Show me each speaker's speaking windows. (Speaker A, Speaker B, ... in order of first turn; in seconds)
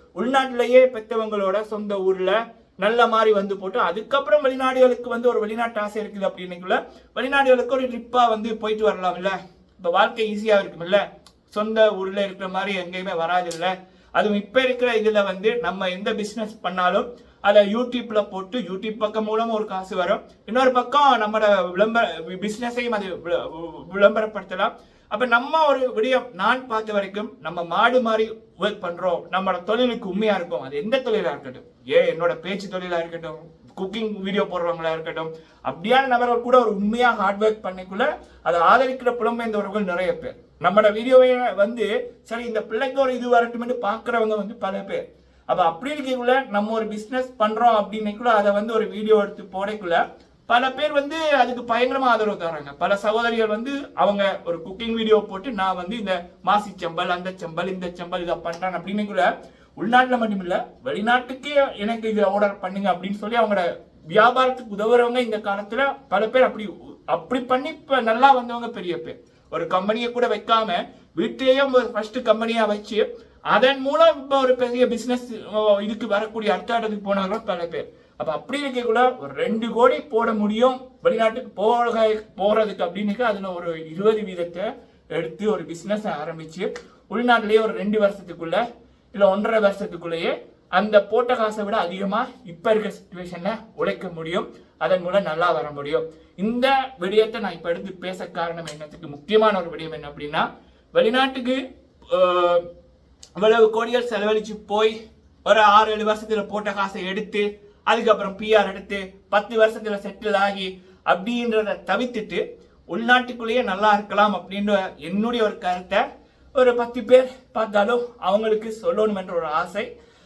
Speaker A: 0.2-88.6, 89.1-101.6, 102.1-102.7, 103.4-116.0, 116.5-119.9